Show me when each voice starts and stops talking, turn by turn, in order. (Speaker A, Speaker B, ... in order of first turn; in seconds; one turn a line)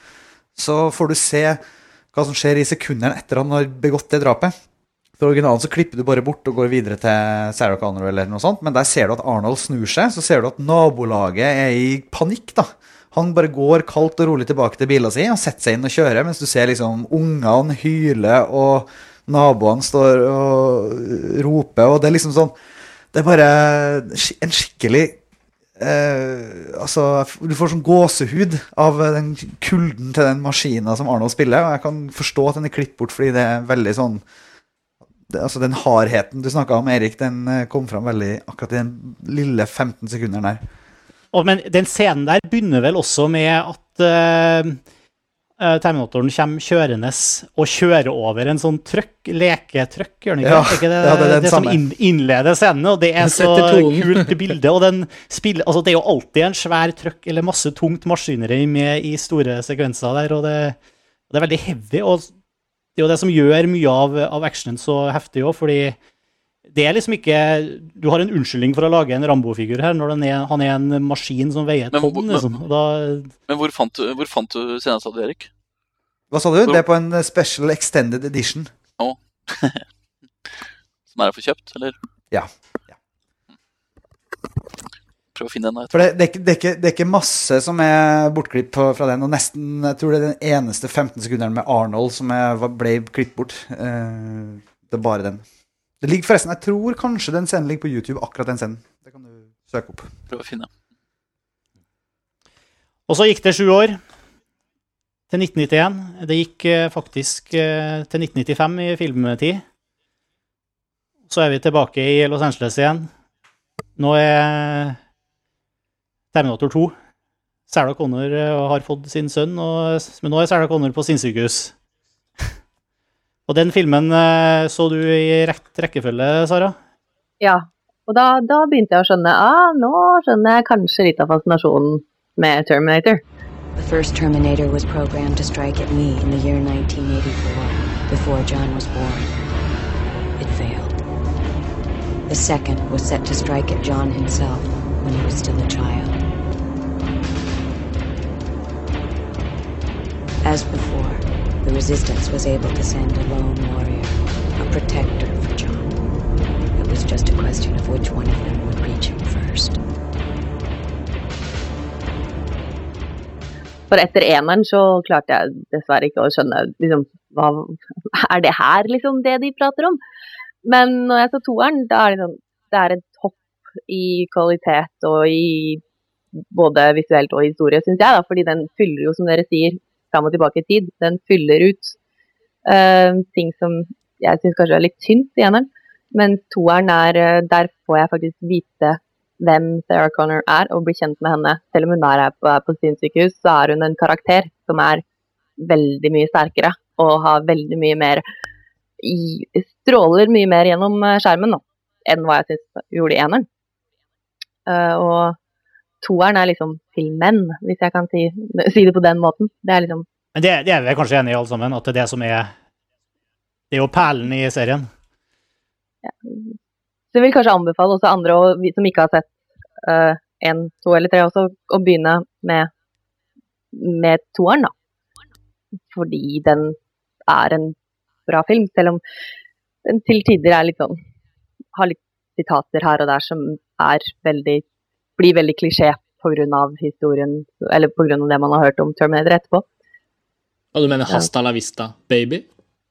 Speaker A: 0.6-1.6
Speaker A: 2.1-4.5
Speaker A: 5.2-22.5
Speaker A: 23.1-25.2
Speaker A: 25.8-34.2
Speaker A: 35.3-40.6
Speaker B: 41.3-44.8
Speaker B: 45.6-60.8
Speaker A: 50.4-51.8
Speaker C: 53.2-54.4
Speaker B: 61.3-62.3
Speaker B: 63.0-66.0
Speaker B: 66.7-73.3
Speaker D: 71.9-72.5
Speaker D: 73.5-75.5
Speaker A: 76.3-78.7
Speaker D: 79.0-79.9
Speaker D: 81.1-82.0
Speaker D: 85.4-86.1
Speaker A: 85.9-95.4
Speaker A: 96.0-100.1
Speaker D: 100.3-100.7
Speaker B: 103.1-104.0
Speaker B: 105.3-109.6
Speaker B: 111.3-113.1
Speaker B: 114.0-115.0
Speaker B: 116.3-116.9
Speaker B: 117.7-121.7
Speaker B: 123.5-126.8
Speaker E: 127.4-133.2
Speaker F: 133.8-139.4
Speaker F: 140.4-141.0
Speaker F: 142.3-146.2
Speaker F: 150.4-156.0
Speaker F: 156.7-159.8
Speaker E: 163.9-170.0
Speaker E: 170.7-175.8
Speaker E: 176.5-181.9
Speaker E: 182.7-195.0
Speaker E: 195.6-198.2
Speaker E: 199.0-203.5
Speaker E: 204.7-205.4
Speaker E: 206.0-210.1
Speaker B: 210.3-212.5
Speaker B: 213.7-214.9
Speaker E: 216.0-216.5
Speaker E: 217.1-222.7
Speaker E: 223.7-224.7
Speaker E: 225.9-226.8
Speaker E: 227.3-227.8
Speaker E: 228.3-229.0
Speaker E: 229.8-231.0
Speaker E: 231.7-234.6
Speaker E: 235.2-239.7
Speaker C: 240.7-242.5